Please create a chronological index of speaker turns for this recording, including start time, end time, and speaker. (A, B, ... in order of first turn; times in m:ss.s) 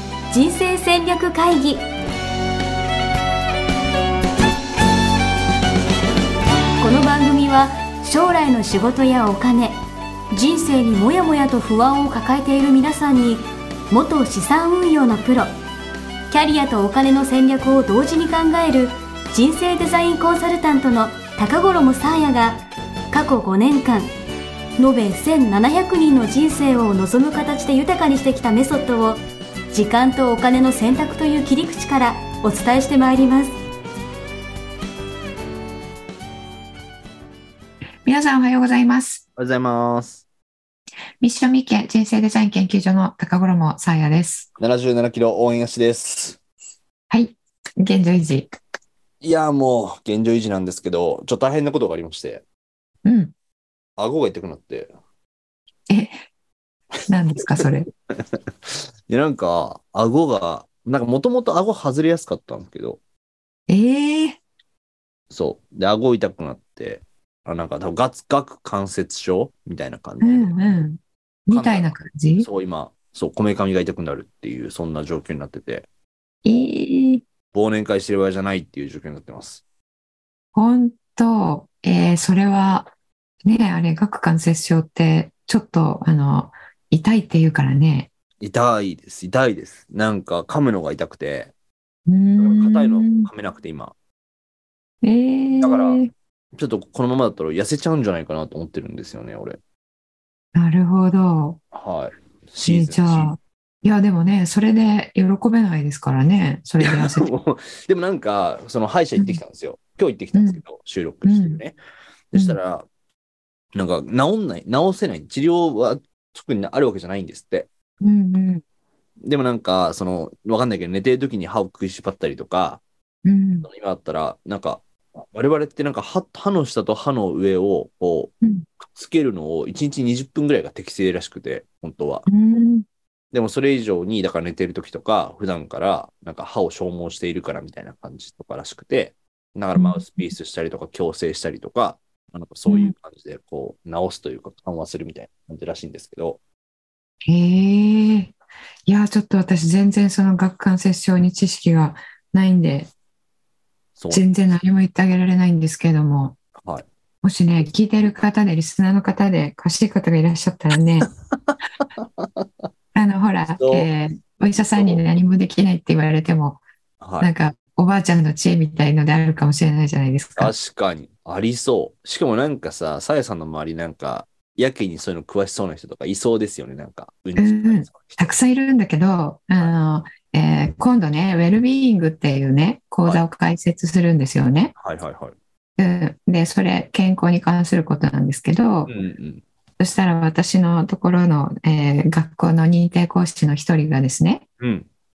0:00.3-0:01.9 A
0:06.8-0:09.8 A
0:10.3-0:15.5 A
0:16.3-0:24.1 A
0:24.8-0:33.6 A
0:38.1-0:39.2 B
0:39.4-0:40.2 C
0:41.2-0:44.5 B
0:44.6-0:46.4 C
0:47.1-0:48.5 B
0:49.2-0:52.4 C
0:53.0-0:53.3 B
0:54.0-0:54.9 C
0:55.9-0:56.2 B
0:57.1-0:57.9 B
0:58.3-1:03.0 C
1:03.7-1:04.4 B
1:05.3-1:10.6 C
1:10.2-1:12.5 B
1:11.5-1:15.9 C
1:16.4-1:17.2 B
1:17.5-1:19.6 C
1:20.5-1:22.9 B
1:23.4-1:28.1 B
1:28.4-1:31.5 C
1:32.1-1:33.3 B
1:32.4-1:34.0 C
1:35.0-1:36.1 B
1:35.6-1:36.0 C
1:36.6-1:39.6 C
1:40.6-1:41.6 B
1:41.7-1:43.4 C
1:42.6-1:47.3 B
1:46.8-1:51.8 C
1:50.3-1:50.6 B
1:51.2-1:51.6 B
1:52.3-1:52.8 C
1:53.7-1:57.7 C
1:58.0-1:58.6 B
1:59.2-2:02.8 C
2:03.2-2:03.7 B
2:03.6-2:12.3 C
2:12.3-2:12.9 B
2:13.3-2:26.4 C
2:19.8-2:20.3 B
2:22.7-2:22.9 B
2:27.3-2:28.3 B
2:28.9-2:32.9 B
2:34.0-2:34.2 C
2:34.1-2:36.4 B
2:36.6-2:36.8 C
2:37.2-2:41.1 B
2:41.5-2:42.6 C
2:43.0-2:46.6 B
2:43.6-2:43.9 C
2:44.7-2:45.0 C
2:47.0-2:47.3 C
2:47.2-2:50.5 B
2:50.4-2:58.4 C
2:57.4-3:04.7 B
3:04.8-3:05.4 C
3:05.8-3:08.9 B
3:08.9-3:09.4 C
3:09.8-3:14.4 B
3:14.6-3:14.9 C